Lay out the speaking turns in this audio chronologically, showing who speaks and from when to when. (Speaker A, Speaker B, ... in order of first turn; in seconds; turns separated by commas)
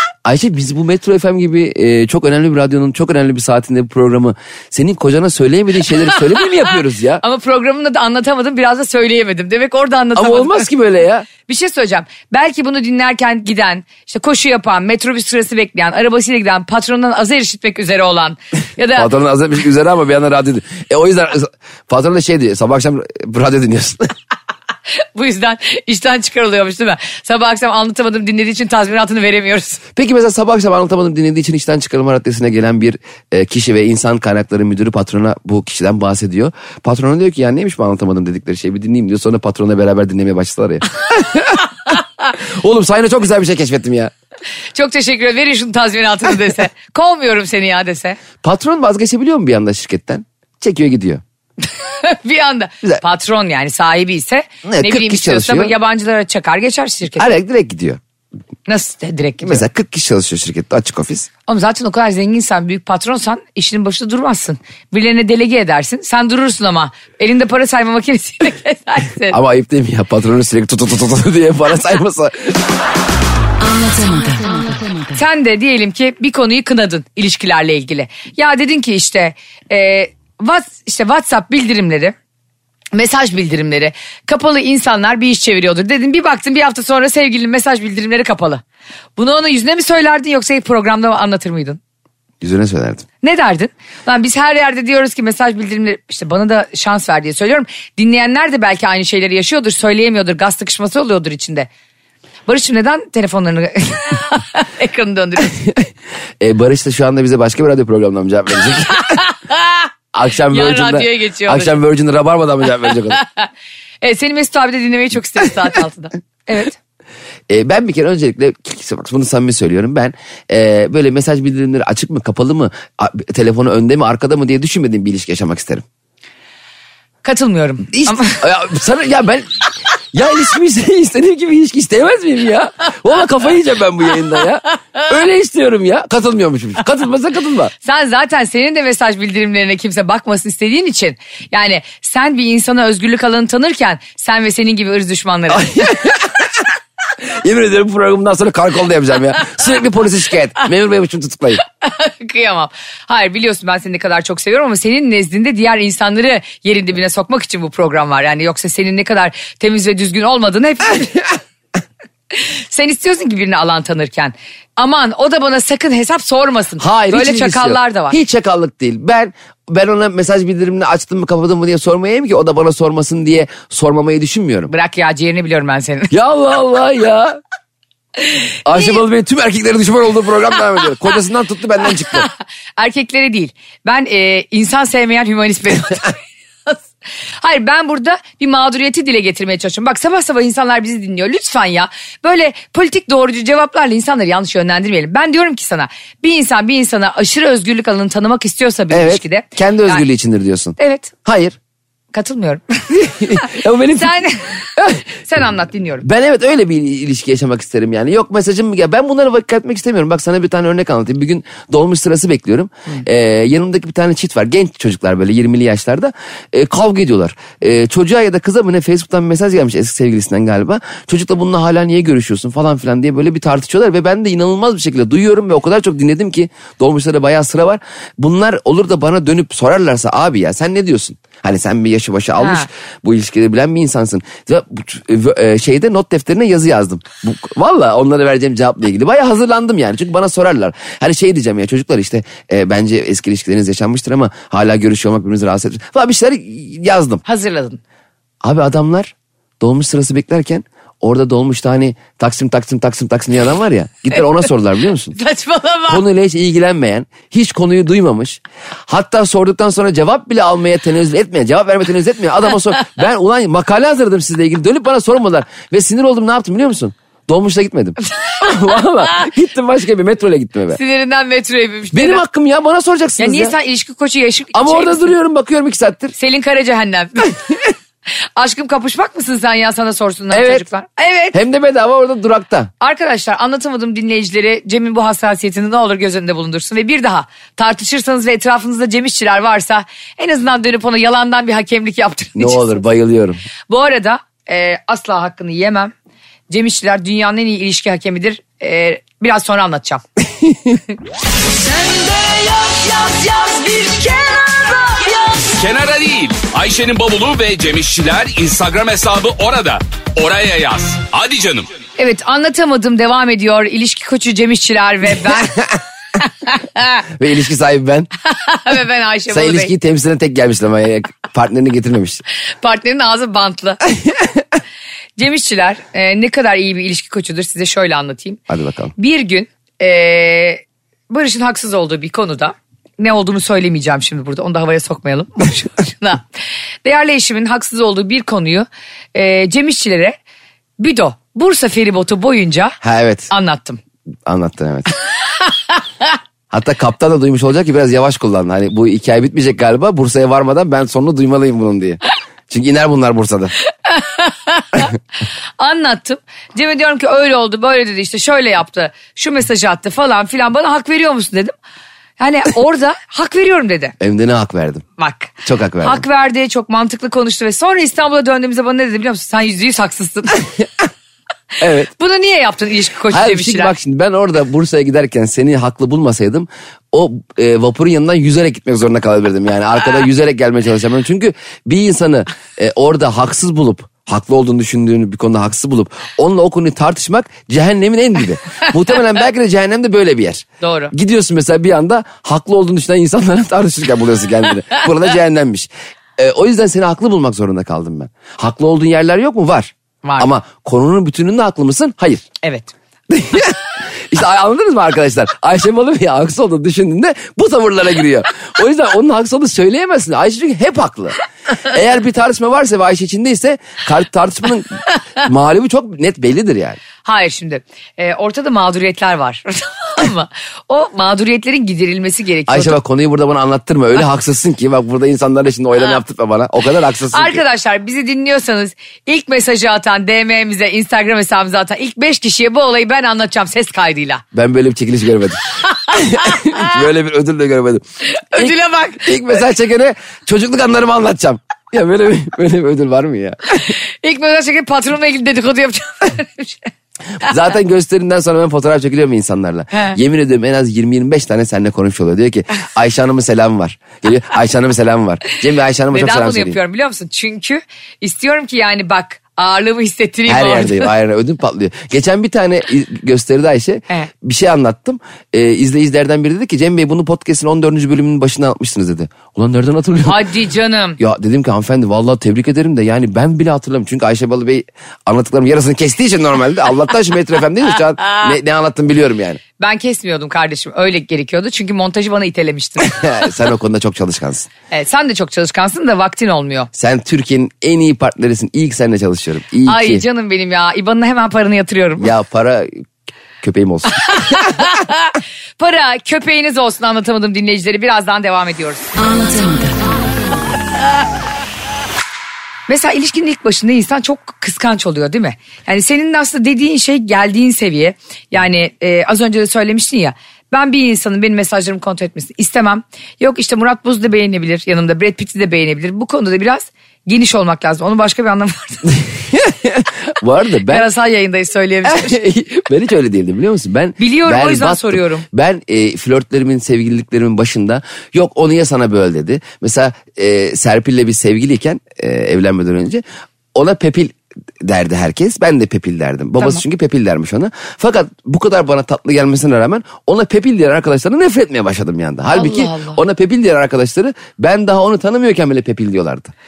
Speaker A: 0.2-7.2, Speaker B: 7.2-10.7, Speaker A: 10.2-11.3, Speaker B: 11.5-19.1, Speaker A: 18.9-24.1, Speaker B: 25.1-29.8, Speaker A: 30.0-44.1, Speaker B: 44.7-48.2, Speaker A: 48.4-51.2, Speaker B: 51.8-57.3, Speaker A: 54.6-55.7, Speaker A: 57.2-58.0, Speaker B: 58.7-59.6, Speaker A: 59.4-61.3, Speaker B: 61.5-69.4, Speaker A: 69.3-72.6, Speaker B: 74.3-82.1, Speaker B: 82.9-88.6, Speaker B: 89.2-91.8, Speaker A: 92.4-93.0, Speaker B: 93.2-101.7, Speaker B: 102.5-105.6, Speaker A: 105.5-105.9, Speaker A: 106.4-109.2, Speaker B: 108.9-109.9, Speaker A: 110.1-113.2, Speaker B: 110.5-111.8, Speaker B: 112.9-113.5, Speaker B: 114.0-116.8, Speaker A: 117.5-125.8, Speaker B: 127.2-128.4, Speaker A: 127.9-137.7, Speaker B: 137.8-145.9, Speaker A: 145.5-146.6, Speaker A: 147.2-151.6, Speaker B: 151.8-161.3, Speaker B: 162.3-168.2, Speaker A: 166.8-174.7, Speaker B: 174.7-176.1, Speaker A: 176.1-177.4, Speaker A: 178.6-182.3, Speaker B: 182.1-186.8, Speaker B: 187.4-200.0, Speaker A: 198.9-201.6, Speaker B: 200.8-201.1, Speaker B: 202.1-206.1, Speaker A: 202.9-204.2, Speaker A: 204.8-205.0, Speaker A: 206.0-247.2, Speaker B: 232.4-232.7, Speaker B: 247.2-247.8, Speaker A: 248.4-255.2, Speaker B: 255.2-256.0, Speaker A: 255.9-270.8, Speaker B: 268.2-268.5, Speaker B: 270.7-272.2, Speaker A: 271.9-273.5, Speaker B: 273.2-275.1, Speaker A: 274.5-276.1, Speaker B: 276.1-277.4, Speaker B: 278.4-281.4, Speaker A: 280.3-280.6, Speaker A: 281.3-282.7, Speaker B: 282.8-292.8, Speaker A: 292.4-293.4, Speaker B: 293.7-295.9, Speaker B: 296.5-300.0, Speaker A: 300.5-300.8, Speaker B: 301.9-305.5, Speaker C: 305.5-311.7, Speaker B: 312.0-315.6, Speaker A: 315.2-315.8, Speaker B: 316.2-317.0, Speaker A: 317.1-318.1, Speaker B: 318.3-319.7, Speaker A: 319.3-322.2, Speaker B: 322.6-323.8, Speaker B: 325.2-328.4, Speaker A: 328.5-328.9, Speaker B: 329.0-336.2, Speaker B: 336.8-340.1, Speaker B: 340.8-342.8, Speaker A: 342.8-343.3, Speaker B: 343.3-343.8, Speaker A: 344.3-344.9, Speaker A: 346.5-353.5, Speaker B: 353.9-354.9, Speaker B: 355.6-361.5, Speaker B: 362.2-363.9, Speaker A: 364.0-364.9, Speaker B: 365.0-370.4, Speaker A: 365.4-366.0, Speaker A: 371.6-371.9, Speaker B: 371.9-373.7, Speaker A: 373.1-402.3, Speaker B: 390.6-390.9, Speaker B: 400.0-400.3, Speaker B: 402.4-402.7, Speaker A: 403.1-416.8, Speaker B: 417.0-422.8, Speaker A: 422.5-427.4, Speaker B: 427.1-434.2, Speaker A: 434.3-437.8, Speaker B: 435.7-436.7, Speaker B: 438.1-439.2, Speaker A: 438.4-443.7, Speaker B: 443.5-446.7, Speaker A: 447.2-456.6, Speaker B: 449.7-450.0, Speaker B: 455.9-460.9, Speaker A: 460.3-470.3, Speaker B: 470.0-471.0, Speaker A: 471.0-479.4, Speaker B: 479.6-483.1, Speaker A: 482.8-484.5, Speaker B: 484.7-486.7, Speaker A: 486.7-490.0, Speaker B: 489.6-492.1, Speaker A: 492.0-492.8, Speaker A: 493.4-494.7, Speaker B: 494.0-499.8, Speaker B: 502.7-519.0, Speaker A: 519.1-520.9, Speaker B: 520.7-522.2, Speaker A: 521.9-533.0, Speaker B: 524.0-525.2, Speaker A: 533.5-546.3, Speaker B: 542.3-543.0